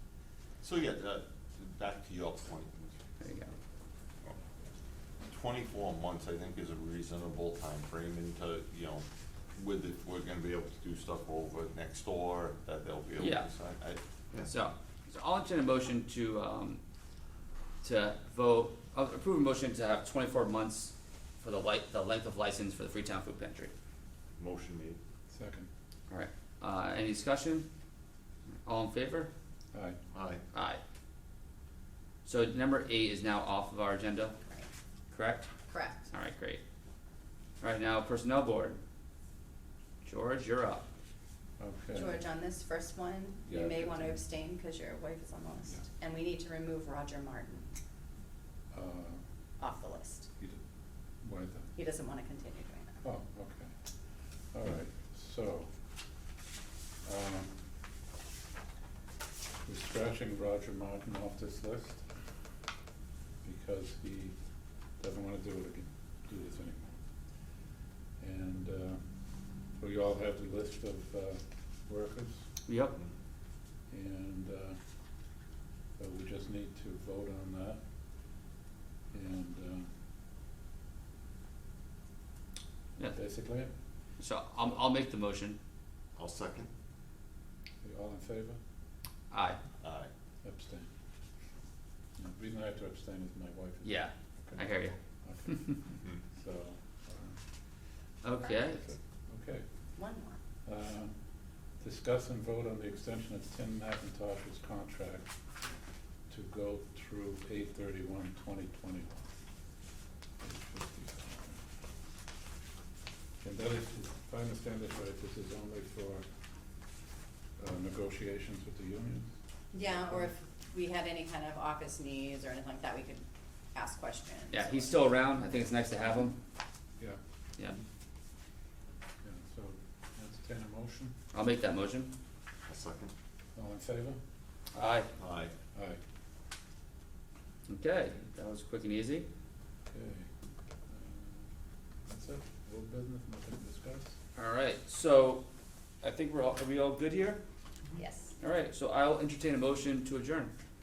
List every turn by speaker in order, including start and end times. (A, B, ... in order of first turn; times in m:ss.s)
0:00.6-0:02.9 A
0:03.2-0:03.5 B
0:05.3-0:14.5 A
0:13.2-0:13.5 B
0:14.4-0:16.8 B
0:17.8-0:23.7 B
0:24.4-0:25.0 A
0:25.3-0:25.7 C
0:26.1-0:27.7 B
0:28.6-0:29.3 B
0:29.7-0:30.0 C
0:30.1-0:30.4 A
0:30.5-0:30.8 B
0:32.2-0:34.4 B
0:35.1-0:35.5 B
0:35.7-0:36.1 D
0:36.1-0:36.6 B
0:37.6-0:38.8 B
0:40.0-0:40.8 B
0:41.6-0:42.2 C
0:41.9-0:47.7 D
0:43.5-0:44.2 C
0:48.7-0:49.2 C
0:49.6-0:50.3 D
0:51.2-0:51.7 C
0:51.8-0:53.0 D
0:53.0-0:53.7 C
0:54.5-0:55.7 C
0:57.0-0:57.6 C
0:59.6-1:02.0 C
1:03.4-1:04.3 C
1:05.0-1:06.9 C
1:08.2-1:09.0 C
1:09.8-1:12.5 C
1:12.7-1:13.0 B
1:13.9-1:14.8 C
1:16.0-1:17.8 C
1:19.1-1:19.9 C
1:23.0-1:23.7 C
1:24.2-1:25.6 B
1:26.2-1:26.7 A
1:27.8-1:28.6 C
1:29.3-1:29.6 B
1:29.8-1:30.1 A
1:30.4-1:30.9 C
1:32.2-1:34.6 C
1:33.8-1:35.7 B
1:35.2-1:37.4 C
1:38.2-1:38.8 B
1:38.7-1:39.6 C
1:40.0-1:40.4 D
1:40.6-1:41.1 C
1:41.8-1:45.3 C
1:46.3-1:49.1 C
1:50.4-1:51.6 C
1:53.4-1:56.2 C
1:57.6-1:59.3 C
1:59.7-2:04.9 D
2:04.5-2:06.4 B
2:09.2-2:11.1 C
2:11.3-2:12.1 B
2:12.7-2:13.1 A
2:13.5-2:14.2 C
2:14.7-2:15.1 B
2:15.2-2:15.5 A
2:15.7-2:16.0 C
2:17.7-2:19.3 B
2:19.9-2:20.3 C
2:20.9-2:21.5 C
2:22.0-2:24.2 C
2:24.3-2:25.4 B
2:26.0-2:27.4 B
2:28.0-2:28.3 D
2:28.4-2:30.5 B